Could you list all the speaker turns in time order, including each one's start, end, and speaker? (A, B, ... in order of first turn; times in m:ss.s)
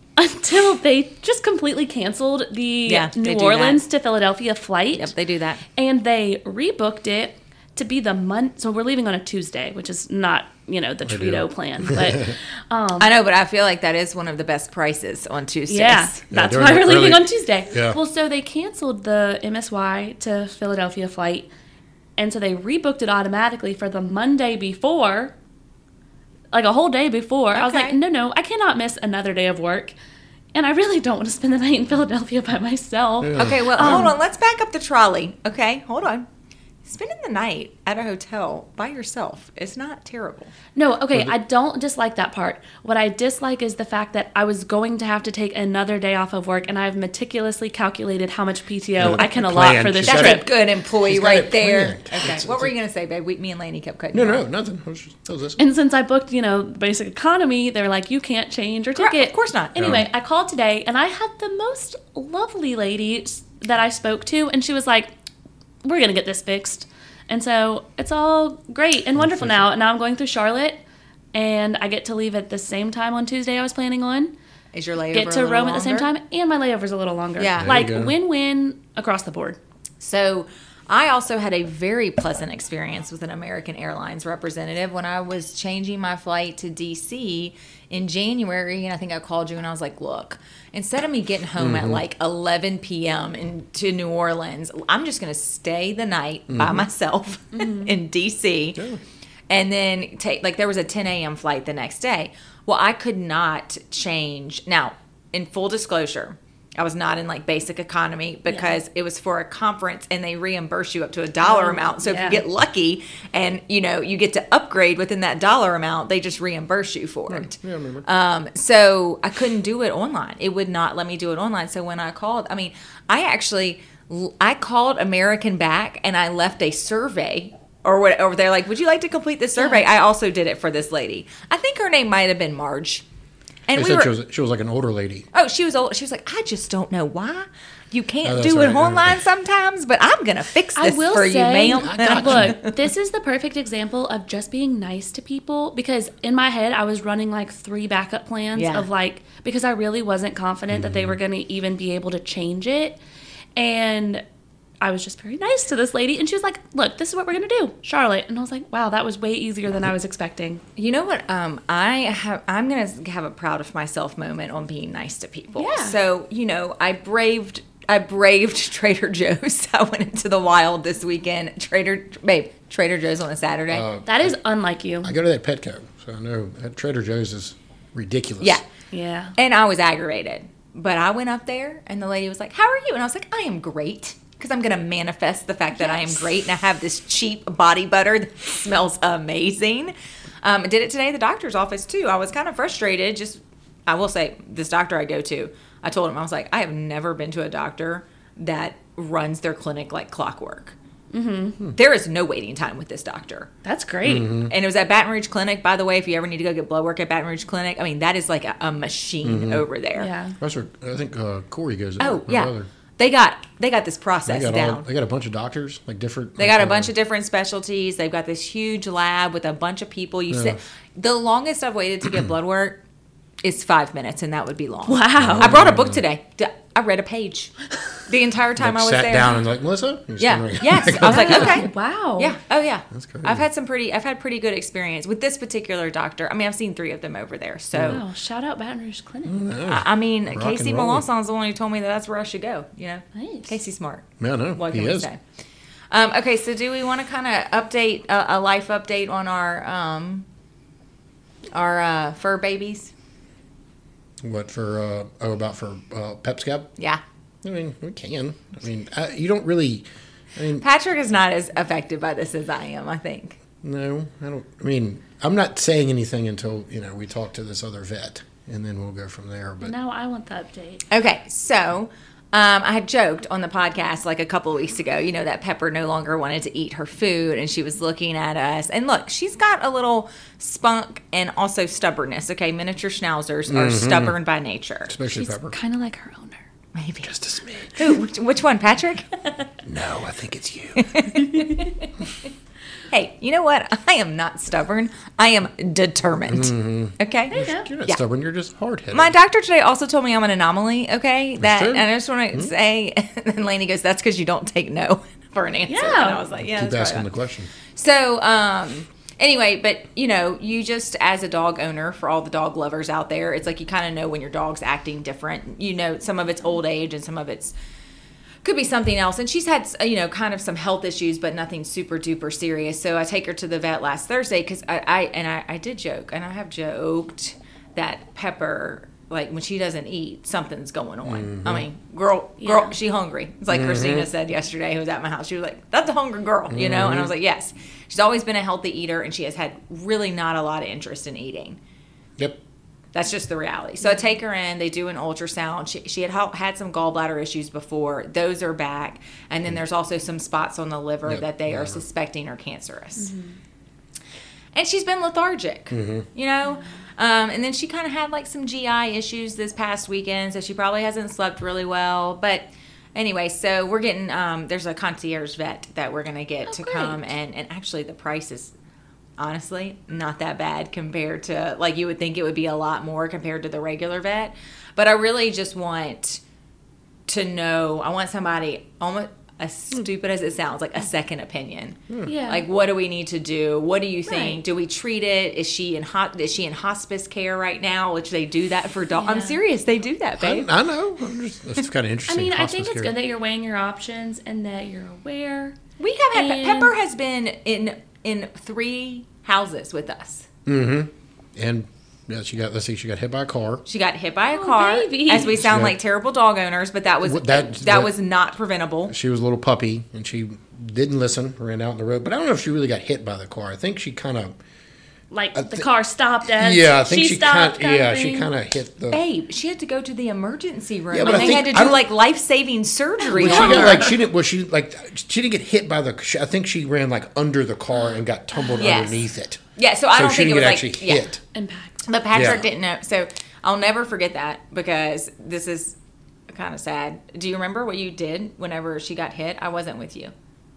0:00.2-0:05.1 A
0:02.9-0:03.8 B
0:04.9-0:05.6 B
0:05.8-0:13.1 A
0:11.0-0:12.3 C
0:13.0-0:16.2 B
0:15.7-0:21.5 A
0:16.3-0:18.0 C
0:22.2-0:25.3 A
0:26.5-0:29.9 A
0:27.5-0:28.0 B
0:30.5-0:34.2 A
0:33.2-0:34.1 C
0:33.4-0:36.2 B
0:36.8-0:40.5 B
0:40.8-0:50.5 A
0:49.0-0:50.5 C
0:50.0-0:54.4 B
0:51.0-0:52.7 C
0:54.1-0:55.6 C
0:55.6-1:05.1 A
0:59.0-0:59.8 B
0:59.8-1:00.0 C
1:05.8-1:10.8 A
1:09.2-1:09.6 C
1:11.3-1:14.3 A
1:14.7-1:16.1 B
1:15.1-1:19.6 A
1:17.4-1:17.8 B
1:17.6-1:18.1 C
1:20.0-1:38.8 B
1:31.6-1:32.0 C
1:36.5-1:36.9 C
1:37.5-1:37.9 A
1:39.5-1:57.5 B
1:48.5-1:48.8 A
1:51.4-1:52.4 A
1:57.3-1:58.0 C
1:58.0-2:13.0 B
2:09.6-2:09.8 A
2:13.7-2:14.1 B
2:13.7-2:15.3 C
2:15.3-2:22.7 B
2:18.2-2:19.2 C
2:20.8-2:33.0 A
2:21.7-2:22.6 C
2:28.5-2:28.9 B
2:30.7-2:31.2 C
2:33.6-2:34.2 A
2:34.8-2:40.6 A
2:40.8-2:53.8 B
2:45.6-2:46.0 A
2:53.7-2:54.4 C
2:54.0-2:55.1 A
2:55.0-2:58.6 C
2:58.9-2:59.3 A
2:59.4-3:20.7 B
3:05.8-3:06.2 A
3:21.1-3:21.6 A
3:21.7-3:23.5 B
3:23.6-3:24.3 A
3:24.0-3:24.5 C
3:24.4-3:30.1 B
3:29.2-3:29.6 C
3:30.0-3:30.4 A
3:30.4-3:32.7 C
3:32.0-3:34.8 B
3:34.2-3:36.9 C
3:36.4-3:42.8 B
3:40.3-3:40.6 C
3:43.4-3:47.5 B
3:44.8-3:45.6 A
3:45.2-3:46.0 C
3:48.1-3:49.4 B
3:48.6-3:51.7 C
3:50.2-3:58.0 B
3:51.0-3:52.4 A
3:52.9-3:53.4 C
3:57.7-3:58.0 C
3:57.8-3:59.5 A
3:59.2-4:01.0 C
3:59.6-4:05.2 B
4:03.1-4:03.5 A
4:04.2-4:05.1 C
4:05.9-4:10.2 B
4:11.5-4:12.9 B
4:14.2-4:16.7 C
4:17.4-4:20.6 C
4:20.6-4:23.4 B
4:23.6-4:29.7 C
4:29.6-4:30.8 A
4:30.9-4:44.9 B
4:43.5-4:44.2 C
4:44.9-4:45.6 C
4:45.1-4:46.4 A
4:46.7-4:47.1 B
4:47.0-4:48.0 C
4:47.8-4:49.2 B
4:49.6-4:51.0 C
4:50.8-4:52.3 B
4:52.9-4:58.0 B
4:56.3-4:59.1 C
4:57.3-4:57.7 A
4:58.9-5:07.1 B
5:01.4-5:02.5 C
5:05.7-5:06.2 A
5:06.4-5:07.5 C
5:07.8-5:17.5 B
5:18.4-5:41.6 B
5:31.0-5:31.6 C
5:32.4-5:32.7 A
5:33.5-5:34.1 C
5:36.5-5:37.1 C
5:42.9-5:53.1 B
5:51.0-5:51.8 C
5:53.0-5:53.4 A
5:54.5-6:08.5 B
5:55.7-5:56.0 C
6:06.5-6:07.0 A
6:09.2-6:16.2 B
6:17.1-6:30.5 B
6:22.0-6:22.4 A
6:24.1-6:24.4 A
6:29.0-6:29.4 A
6:30.2-6:32.9 C
6:32.1-6:35.6 A
6:35.8-6:40.3 B
6:36.1-6:36.7 A
6:40.4-6:43.6 C
6:43.7-6:48.9 B
6:44.3-6:45.4 A
6:45.3-6:45.8 C
6:47.0-6:47.9 C
6:48.9-6:54.4 C
6:55.1-6:58.3 A
6:55.3-6:55.7 C
6:56.3-6:59.0 C
6:58.9-7:04.0 B
7:00.9-7:01.8 C
7:01.0-7:01.4 A
7:03.0-7:03.9 A
7:03.2-7:09.4 C
7:08.4-7:08.6 A
7:08.6-7:09.0 B
7:09.6-7:11.1 B
7:09.9-7:11.2 C
7:11.3-7:11.8 A
7:11.9-7:15.8 B
7:12.1-7:12.4 C
7:16.3-7:20.1 B